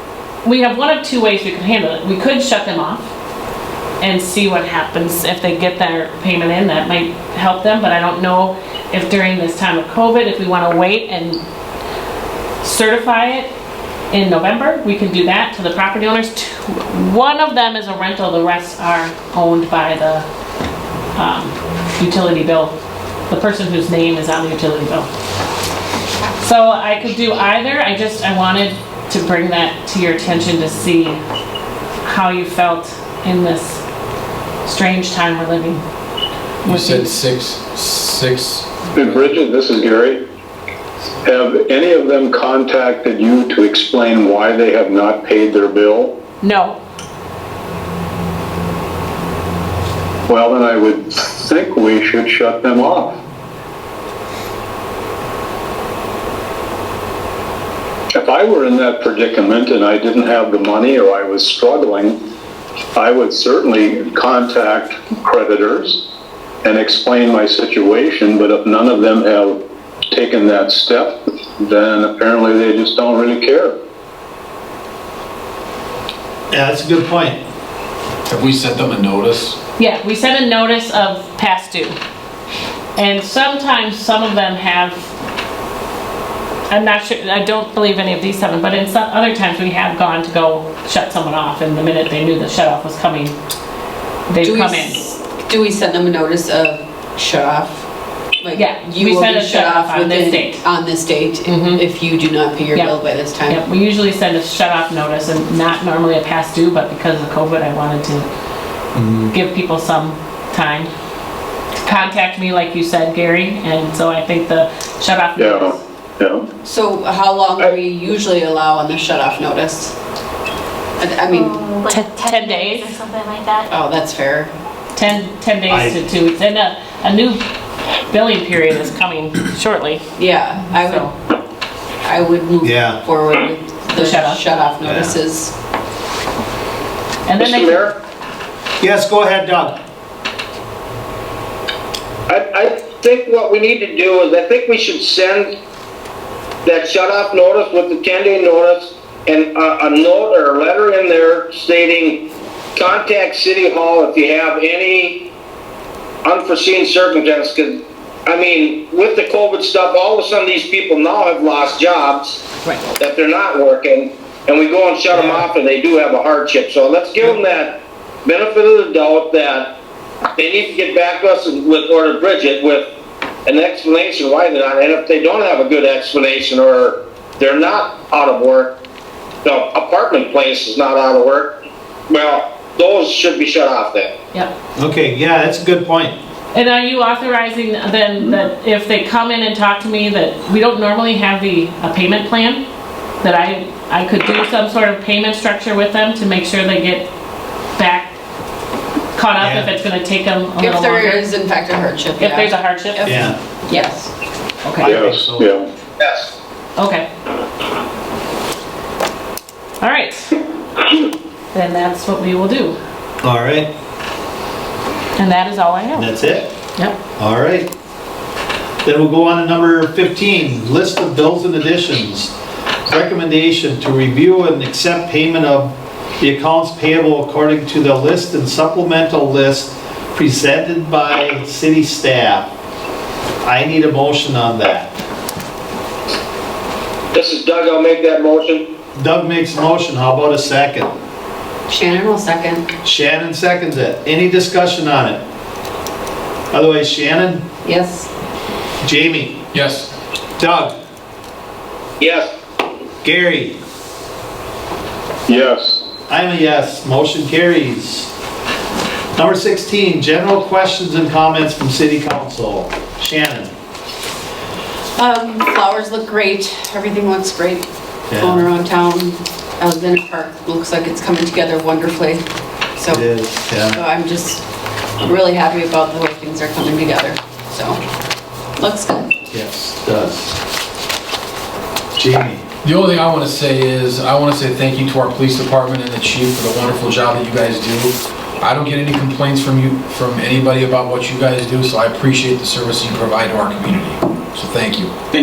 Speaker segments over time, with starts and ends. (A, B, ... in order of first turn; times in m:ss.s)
0:00.4-0:03.1 A
0:04.0-0:11.4 A
0:12.6-0:13.5 A
0:14.1-0:20.2 A
0:21.1-0:22.7 A
0:23.3-0:25.1 A
0:26.4-0:31.2 A
0:32.0-0:33.8 A
0:34.6-0:35.8 A
0:36.6-0:37.1 A
0:36.6-0:39.3 B
0:38.9-0:40.2 C
0:41.2-0:46.2 C
0:46.4-0:46.8 A
0:50.3-0:53.2 C
0:58.1-1:02.2 C
1:03.0-1:06.0 C
1:06.6-1:09.6 C
1:10.1-1:13.7 C
1:16.5-1:17.4 D
1:18.3-1:19.6 B
1:19.8-1:22.0 A
1:23.0-1:25.1 A
1:26.7-1:33.3 A
1:34.3-1:35.0 A
1:34.4-1:37.8 E
1:38.4-1:43.6 E
1:38.5-1:40.6 A
1:41.4-1:41.8 A
1:43.4-1:48.3 A
1:48.9-1:49.3 D
1:49.3-1:50.9 A
1:51.8-1:55.8 A
1:55.4-1:56.4 C
1:56.6-1:59.9 E
2:01.0-2:01.7 E
2:01.3-2:03.7 F
2:01.9-2:03.0 A
2:03.7-2:04.5 E
2:04.9-2:07.4 A
2:05.7-2:06.0 D
2:08.1-2:10.0 A
2:10.2-2:11.1 E
2:10.7-2:11.1 A
2:12.0-2:15.5 E
2:12.6-2:13.0 D
2:13.9-2:14.4 A
2:14.8-2:15.2 D
2:17.2-2:17.8 A
2:17.4-2:17.9 G
2:18.8-2:19.8 D
2:22.3-2:25.5 G
2:26.6-2:32.2 G
2:32.8-2:35.2 G
2:36.2-2:49.7 G
2:50.4-2:52.9 G
2:53.4-2:58.8 G
2:59.4-3:01.6 G
3:02.1-3:04.1 G
3:04.8-3:06.2 D
3:06.5-3:12.6 A
3:13.2-3:17.1 A
3:17.8-3:18.1 A
3:19.1-3:21.3 A
3:19.4-3:19.7 D
3:20.6-3:24.1 E
3:22.2-3:23.3 A
3:23.0-3:23.4 D
3:24.6-3:24.9 A
3:24.8-3:25.5 D
3:24.8-3:25.6 C
3:26.0-3:26.3 G
3:26.8-3:27.1 A
3:29.8-3:30.3 A
3:31.5-3:32.8 A
3:33.2-3:33.7 D
3:35.2-3:36.2 A
3:35.9-3:36.5 D
3:37.2-3:37.7 D
3:38.8-3:42.3 D
3:42.9-3:52.5 D
3:53.4-3:54.9 D
3:57.1-3:58.6 G
3:58.9-4:00.9 D
4:01.7-4:02.6 E
4:02.8-4:05.2 D
4:06.5-4:07.4 D
4:07.6-4:08.1 E
4:08.8-4:09.4 D
4:09.5-4:09.9 B
4:10.4-4:10.7 D
4:12.0-4:12.3 G
4:13.0-4:13.6 D
4:15.3-4:15.8 C
4:16.1-4:18.1 D
4:19.2-4:23.5 D
4:25.0-4:32.2 E
4:28.1-4:28.5 D
4:32.8-4:33.1 E
4:32.9-4:33.8 D
4:33.6-4:34.4 E
4:35.0-4:37.8 E
4:38.6-4:39.1 E
4:39.3-4:40.4 D
4:42.0-4:42.4 D
4:42.6-4:54.9 B